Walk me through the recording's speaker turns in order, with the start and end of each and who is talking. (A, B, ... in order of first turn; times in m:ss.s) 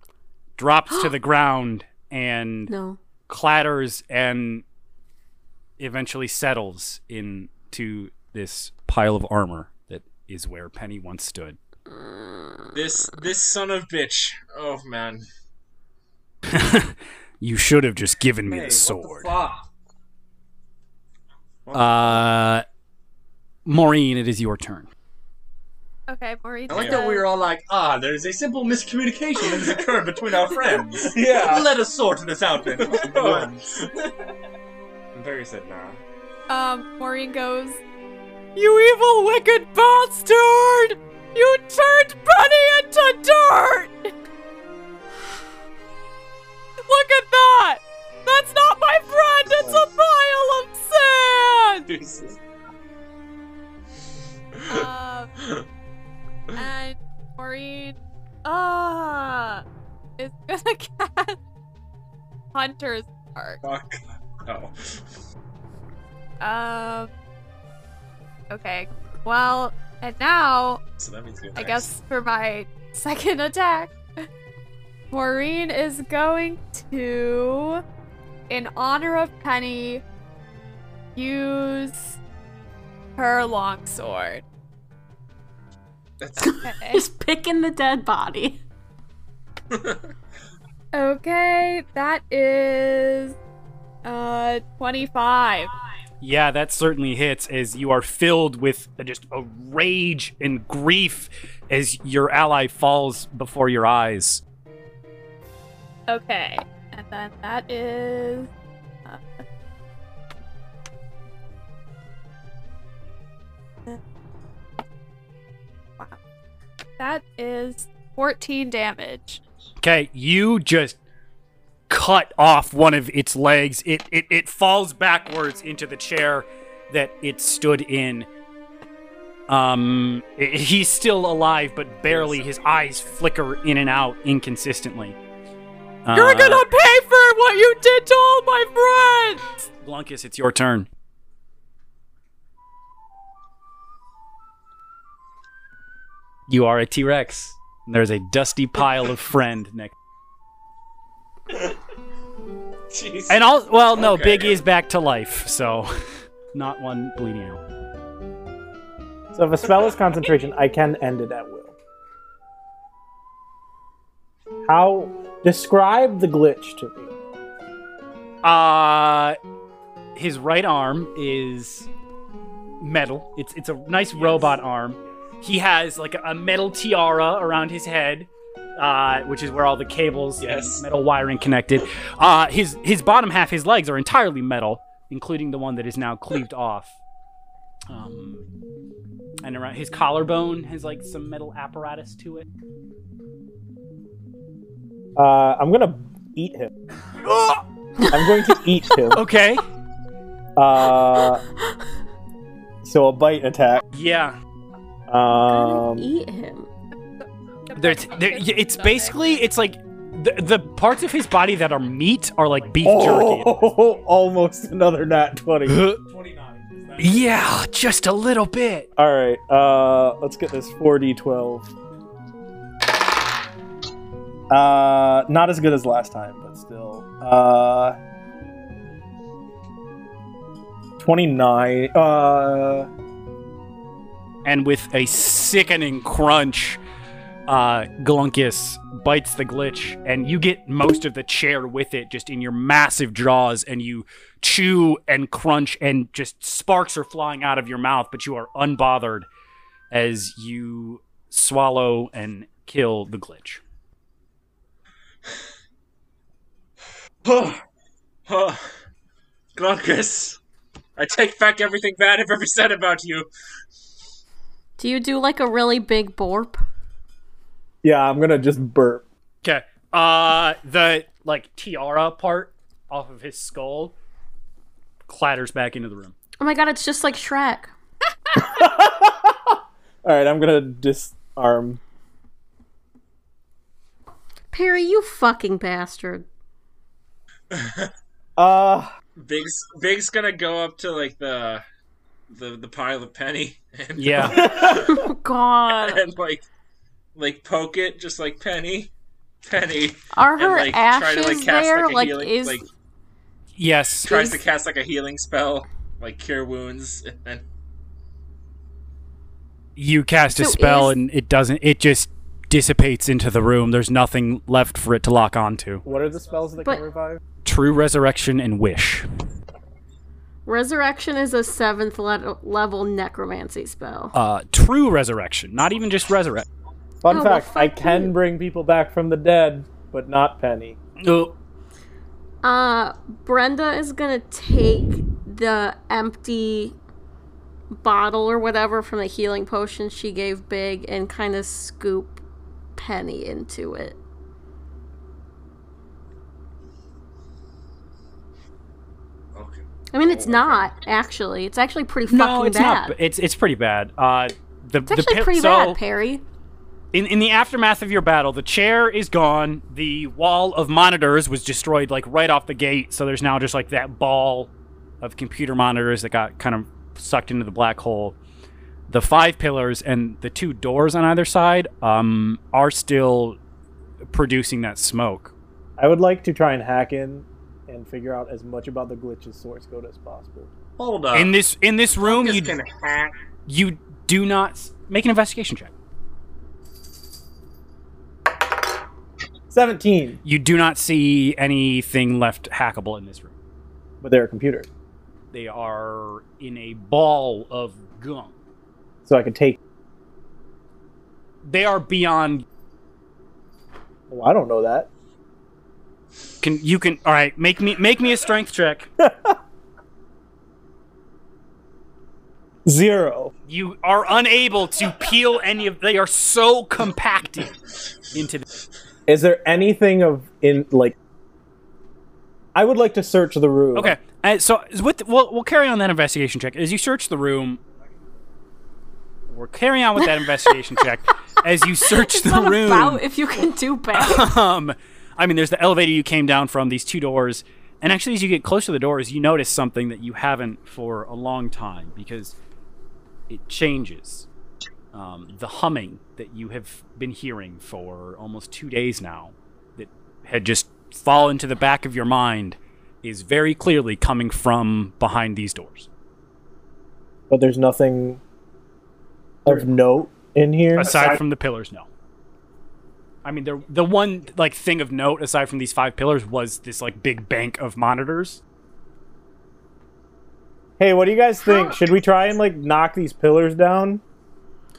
0:00.6-0:02.7 A
0:02.7-0:03.0 B
0:03.3-0:04.6 A
0:05.8-0:11.6 A
0:11.9-0:13.1 B
0:12.7-0:15.2 C
0:16.5-0:19.3 A
0:18.5-0:19.7 D
0:21.6-0:22.2 D
0:21.7-0:22.6 A
0:23.6-0:24.9 A
0:26.1-0:27.2 E
0:26.7-0:33.7 D
0:26.7-0:27.0 C
0:31.0-0:31.7 C
0:32.8-0:33.9 C
0:35.1-0:36.0 D
0:36.5-0:37.8 E
0:38.6-0:44.1 E
0:46.8-0:51.9 E
0:51.9-0:52.4 C
0:54.7-0:55.3 E
0:56.6-0:59.6 E
1:00.2-1:01.4 E
1:02.5-1:03.6 E
1:03.6-1:05.0 C
1:06.4-1:07.1 E
1:08.5-1:10.8 E
1:11.0-1:11.9 C
1:11.6-1:13.9 E
1:15.1-1:17.8 E
1:18.5-1:20.0 E
1:21.2-1:22.2 E
1:23.2-1:24.4 E
1:26.2-1:26.6 C
1:26.4-1:27.0 E
1:26.5-1:28.6 B
1:29.7-1:30.0 C
1:30.9-1:33.4 E
1:34.0-1:35.7 E
1:36.2-1:44.4 A
1:46.1-1:48.5 E
1:49.1-1:49.4 E
1:57.0-1:59.4 E
1:59.8-2:01.0 A
2:01.9-2:08.3 A
2:09.5-2:15.2 A
2:12.1-2:12.4 C
2:12.1-2:13.0 D
2:16.1-2:16.6 A
2:16.1-2:19.5 E
2:19.8-2:20.9 A
2:26.5-2:30.0 A
2:32.9-2:34.6 C
2:33.3-2:35.9 A
2:36.5-2:37.6 A
2:39.3-2:41.8 F
2:44.6-2:47.1 F
2:48.4-2:49.4 A
2:50.2-2:51.9 A
2:52.8-3:07.0 A
2:54.1-2:54.6 C
3:00.4-3:00.8 C
3:07.9-3:08.5 A
3:09.4-3:12.5 A
3:15.2-3:16.7 F
3:17.2-3:17.6 A
3:18.0-3:18.6 B
3:18.1-3:19.2 F
3:19.1-3:19.6 A
3:20.6-3:21.4 F
3:22.8-3:23.8 F
3:23.9-3:24.4 A
3:25.1-3:26.1 F
3:25.3-3:26.7 B
3:27.2-3:29.2 E
3:27.8-3:33.6 A
3:32.8-3:35.9 F
3:35.6-3:36.0 A
3:37.0-3:38.9 A
3:39.0-3:41.7 F
3:44.5-3:48.0 F
3:51.0-3:52.9 F
3:54.4-3:56.8 A
3:57.5-4:09.3 A
4:09.9-4:13.6 A
4:17.2-4:17.6 C
4:18.3-4:18.8 C
4:19.5-4:20.4 C
4:21.0-4:23.3 C
4:24.8-4:26.6 B
4:27.8-4:29.0 F
4:29.4-4:33.9 A
4:35.1-4:36.1 A
4:36.4-4:37.7 B
4:38.4-4:41.8 F
4:44.5-4:46.2 B
4:47.5-4:47.9 C
4:48.4-4:48.9 F
4:49.2-4:51.6 C
4:52.3-4:55.1 C
4:54.0-4:54.4 A
4:54.4-4:54.8 F
4:54.6-4:56.0 B
4:55.7-4:56.4 C
4:57.1-4:58.9 C
4:59.4-5:02.6 C
5:00.1-5:02.6 B
5:03.6-5:04.3 A
5:04.0-5:07.4 C
5:09.8-5:15.8 A
5:10.4-5:11.0 B
5:15.8-5:17.2 F
5:17.4-5:19.1 A
5:20.5-5:24.1 B
5:24.1-5:26.5 A
5:27.0-5:30.8 F
5:27.1-5:28.1 B
5:31.0-5:31.4 A
5:32.4-5:36.8 B
5:37.7-5:42.2 B
5:42.8-5:44.0 B
5:49.4-5:50.7 D
5:49.9-5:53.0 B
5:52.1-5:55.8 A
5:54.9-5:56.2 B
5:56.9-6:04.5 A
6:05.0-6:08.2 A
6:08.9-6:13.4 A
6:14.1-6:15.3 A
6:15.8-6:20.5 F
6:20.8-6:21.4 D
6:21.1-6:22.5 A
6:22.0-6:23.1 D
6:23.5-6:25.7 A
6:29.5-6:30.2 F
6:30.2-6:33.3 A
6:34.0-6:34.7 F
6:35.3-6:38.3 A
6:39.1-6:39.6 F
6:41.4-6:42.4 A
6:44.1-6:44.9 F
6:46.4-6:48.9 A
6:49.0-6:49.4 F
6:52.6-6:53.3 F
6:53.5-6:57.6 A
6:58.1-6:58.5 A
6:59.1-7:01.0 F
7:02.5-7:04.0 F
7:03.8-7:07.6 A
7:09.3-7:13.0 A
7:11.8-7:14.3 B
7:13.9-7:22.4 A
7:23.3-7:24.3 A
7:24.9-7:35.9 A
7:37.3-7:38.2 F
7:39.4-7:41.2 F
7:40.8-7:41.9 A
7:43.2-7:48.4 A
7:50.8-7:54.0 F
7:51.4-7:51.8 B